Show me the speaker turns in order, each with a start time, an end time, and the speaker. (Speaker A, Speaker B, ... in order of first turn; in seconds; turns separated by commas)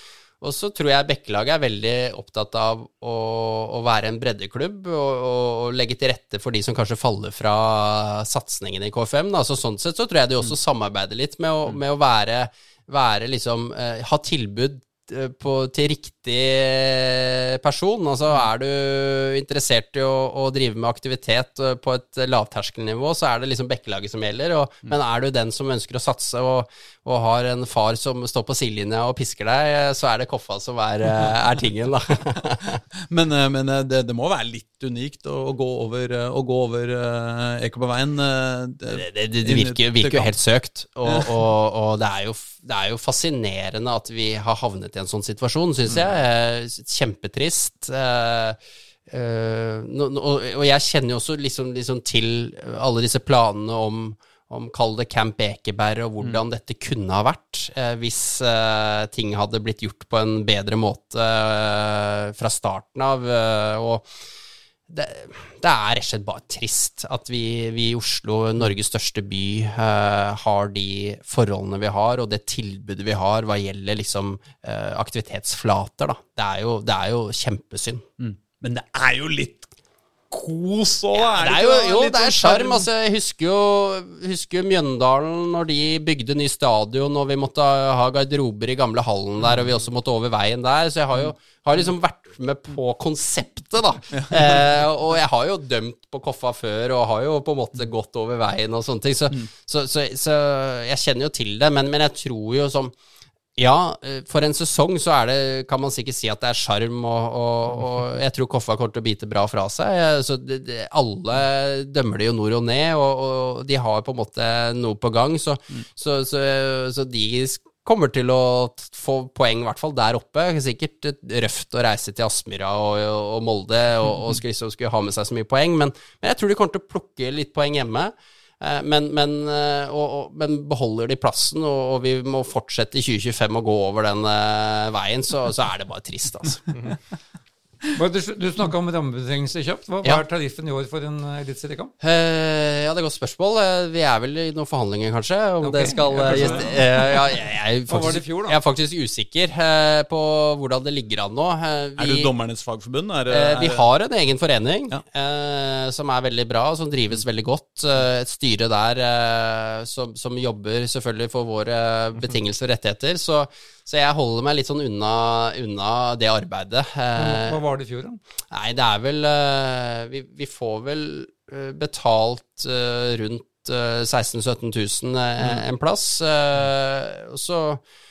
Speaker A: 0.4-32.8, Speaker B: 32.9-40.3, Speaker A: 38.9-64.0, Speaker A: 64.9-78.0, Speaker B: 78.2-79.7, Speaker B: 80.3-82.9, Speaker A: 81.4-102.9, Speaker A: 103.5-136.7, Speaker C: 137.9-141.9, Speaker A: 142.0-152.3, Speaker C: 145.6-147.3, Speaker B: 146.1-146.8, Speaker C: 147.9-148.6, Speaker B: 152.0-153.8, Speaker A: 153.3-167.6, Speaker C: 167.2-168.2, Speaker A: 168.5-177.8